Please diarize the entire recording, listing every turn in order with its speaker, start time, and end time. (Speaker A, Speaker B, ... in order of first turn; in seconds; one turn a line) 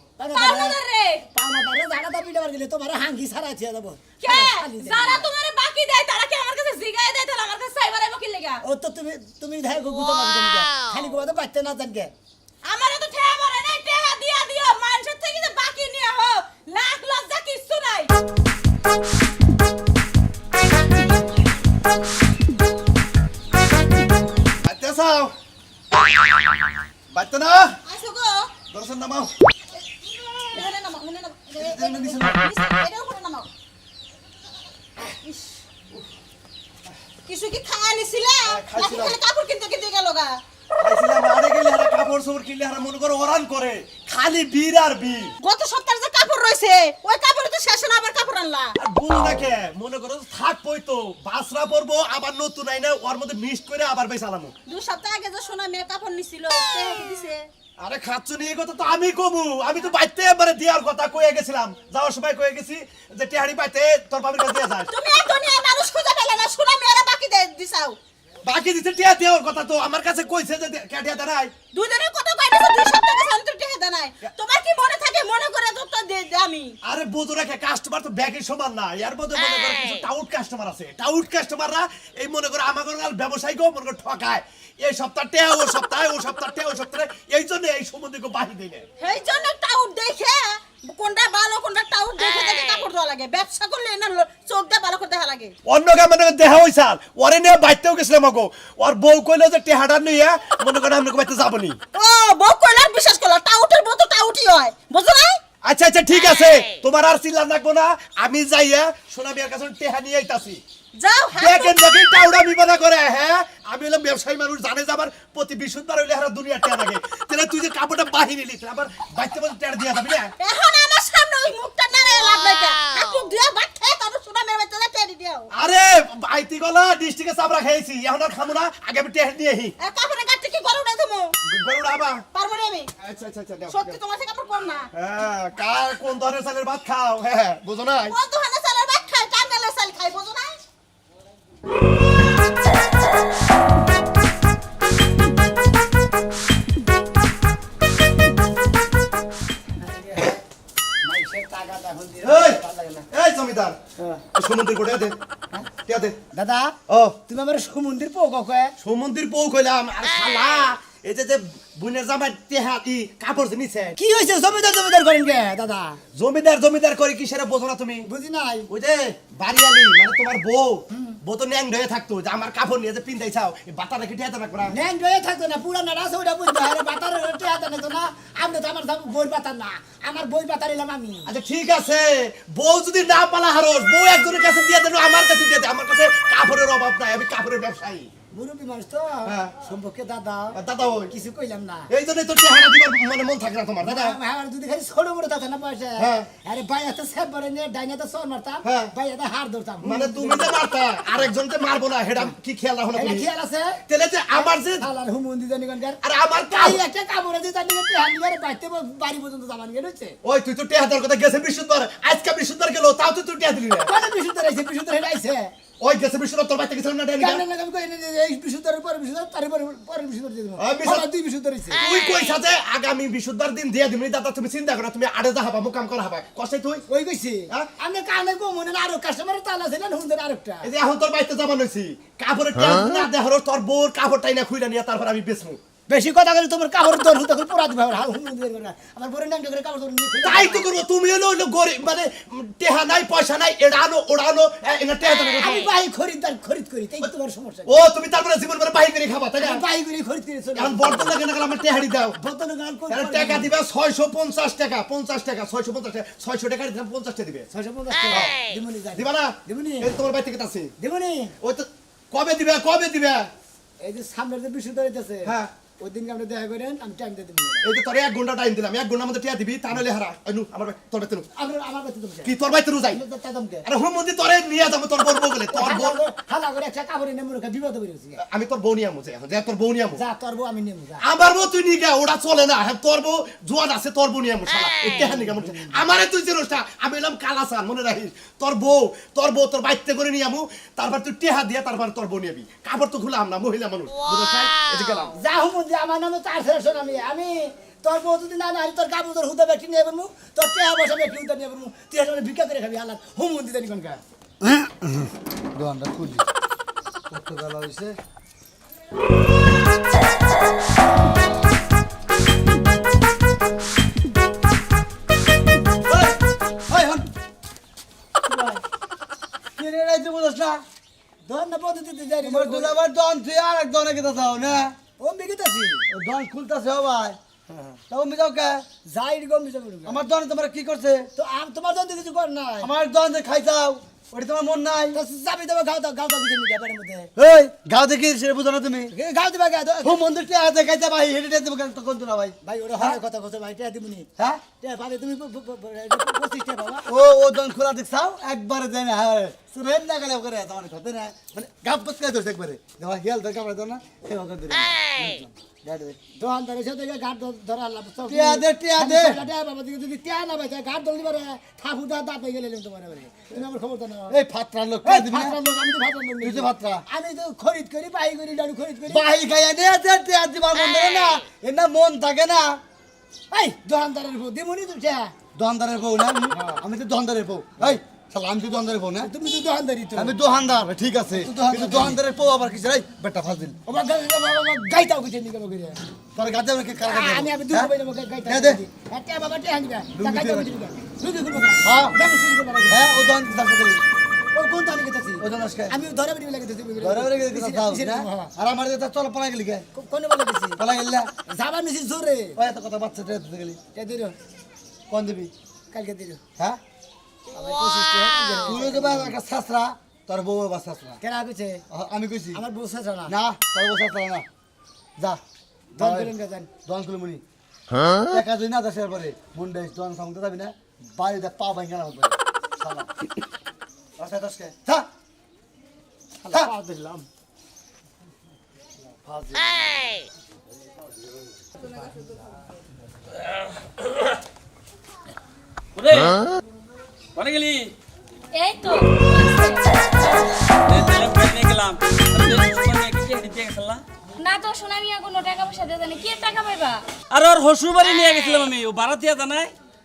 Speaker A: 0.2-0.8
Speaker B: 0.3-1.2
Speaker A: 1.3-5.3
Speaker B: 4.2-8.6
Speaker A: 8.6-12.1
Speaker B: 12.6-18.1
Speaker C: 24.6-25.4
Speaker C: 27.1-27.8
Speaker B: 27.9-28.5
Speaker C: 28.7-29.4
Speaker B: 30.4-33.5
Speaker C: 31.6-32.3
Speaker B: 35.2-35.5
Speaker B: 37.3-40.4
Speaker C: 38.5-39.2
Speaker C: 40.8-45.3
Speaker B: 45.4-48.8
Speaker C: 48.8-54.5
Speaker B: 54.7-57.5
Speaker C: 57.8-64.9
Speaker B: 64.9-68.0
Speaker C: 68.4-71.5
Speaker B: 71.7-76.8
Speaker C: 76.8-88.9
Speaker B: 89.0-95.5
Speaker C: 95.7-101.8
Speaker B: 101.9-105.4
Speaker C: 105.6-110.6
Speaker B: 111.0-111.8
Speaker C: 111.4-120.3
Speaker B: 120.4-125.5
Speaker C: 125.5-129.7
Speaker B: 129.8-131.4
Speaker C: 131.4-132.2
Speaker B: 132.3-132.9
Speaker C: 133.0-134.0
Speaker B: 133.7-134.9
Speaker C: 134.9-138.2
Speaker B: 138.1-140.6
Speaker A: 149.8-150.4
Speaker A: 151.0-153.1
Speaker C: 152.2-152.6
Speaker C: 153.1-153.8
Speaker C: 154.3-155.2
Speaker C: 155.8-156.2
Speaker A: 156.3-156.8
Speaker C: 156.9-157.2
Speaker A: 157.3-158.8
Speaker C: 158.8-163.9
Speaker A: 164.0-166.0
Speaker C: 166.1-168.1
Speaker A: 168.1-168.7
Speaker C: 168.7-174.7
Speaker A: 174.7-181.3
Speaker C: 181.3-188.1
Speaker A: 188.3-191.9
Speaker C: 189.3-189.5
Speaker C: 190.5-191.1
Speaker C: 191.9-194.2
Speaker A: 193.8-201.3
Speaker C: 196.0-196.3
Speaker C: 198.6-198.9
Speaker C: 199.8-203.3
Speaker A: 202.9-210.2
Speaker C: 203.9-204.9
Speaker C: 206.0-206.8
Speaker C: 210.2-213.9
Speaker A: 213.9-215.5
Speaker C: 215.8-217.4
Speaker A: 217.2-221.8
Speaker C: 220.6-221.1
Speaker C: 221.8-226.8
Speaker A: 226.9-230.7
Speaker C: 230.6-235.6
Speaker A: 235.9-240.7
Speaker C: 240.2-245.7
Speaker A: 245.4-247.7
Speaker C: 247.7-249.6
Speaker A: 249.4-251.1
Speaker C: 250.6-252.2
Speaker A: 252.2-253.5
Speaker C: 252.9-257.5
Speaker A: 257.5-259.9
Speaker C: 258.1-258.4
Speaker C: 258.9-260.7
Speaker A: 260.8-261.4
Speaker C: 261.4-263.3
Speaker A: 263.8-267.7
Speaker C: 265.2-265.5
Speaker C: 267.6-271.3
Speaker A: 271.4-272.3
Speaker C: 272.2-273.0
Speaker A: 272.9-273.7
Speaker C: 273.6-276.0
Speaker A: 275.5-278.2
Speaker C: 278.2-280.0
Speaker A: 280.0-281.0
Speaker C: 281.0-295.1
Speaker A: 285.0-285.8
Speaker A: 295.1-304.0
Speaker D: 304.4-306.2
Speaker D: 307.1-308.0
Speaker D: 315.9-317.1
Speaker A: 318.3-318.6
Speaker D: 319.6-320.6
Speaker A: 321.3-322.8
Speaker D: 322.2-324.8
Speaker A: 325.0-325.9
Speaker D: 325.9-327.2
Speaker A: 327.5-327.8
Speaker D: 327.9-328.6
Speaker A: 328.9-330.0
Speaker D: 329.9-331.1
Speaker A: 331.1-332.7
Speaker D: 332.6-335.0
Speaker A: 334.9-337.1
Speaker D: 337.2-338.9
Speaker A: 338.9-340.0
Speaker D: 339.8-343.0
Speaker A: 342.4-346.9
Speaker D: 344.2-344.4
Speaker D: 346.9-355.0
Speaker D: 355.6-356.0
Speaker A: 356.2-364.2
Speaker D: 358.1-359.2
Speaker D: 364.1-365.4
Speaker A: 364.8-369.1
Speaker D: 366.2-366.8
Speaker D: 368.9-372.6
Speaker A: 373.3-375.1
Speaker D: 375.4-379.1
Speaker A: 379.0-380.1
Speaker D: 380.0-383.6
Speaker A: 381.2-382.0
Speaker A: 383.7-385.8
Speaker D: 386.1-387.7
Speaker A: 386.8-392.9
Speaker D: 388.3-388.6
Speaker D: 389.9-390.5
Speaker D: 391.6-392.0
Speaker D: 392.7-393.8
Speaker A: 394.3-398.3
Speaker D: 395.2-395.8
Speaker D: 396.8-399.7
Speaker A: 399.7-400.6
Speaker D: 400.6-401.1
Speaker A: 401.3-402.4
Speaker D: 402.4-403.6
Speaker A: 403.7-404.2
Speaker D: 404.9-405.3
Speaker A: 405.7-406.2
Speaker A: 407.3-409.1
Speaker D: 408.4-411.0
Speaker A: 411.0-411.6
Speaker D: 411.7-412.4
Speaker A: 412.3-413.1
Speaker D: 413.1-414.3
Speaker D: 415.8-416.1
Speaker A: 415.8-416.5
Speaker D: 416.6-417.2
Speaker D: 417.9-422.9
Speaker D: 424.0-424.9
Speaker A: 426.2-427.1
Speaker D: 429.0-429.6
Speaker E: 435.8-436.2
Speaker E: 437.1-437.7
Speaker F: 438.4-439.6
Speaker E: 440.6-443.8
Speaker F: 444.2-446.8
Speaker E: 447.1-449.5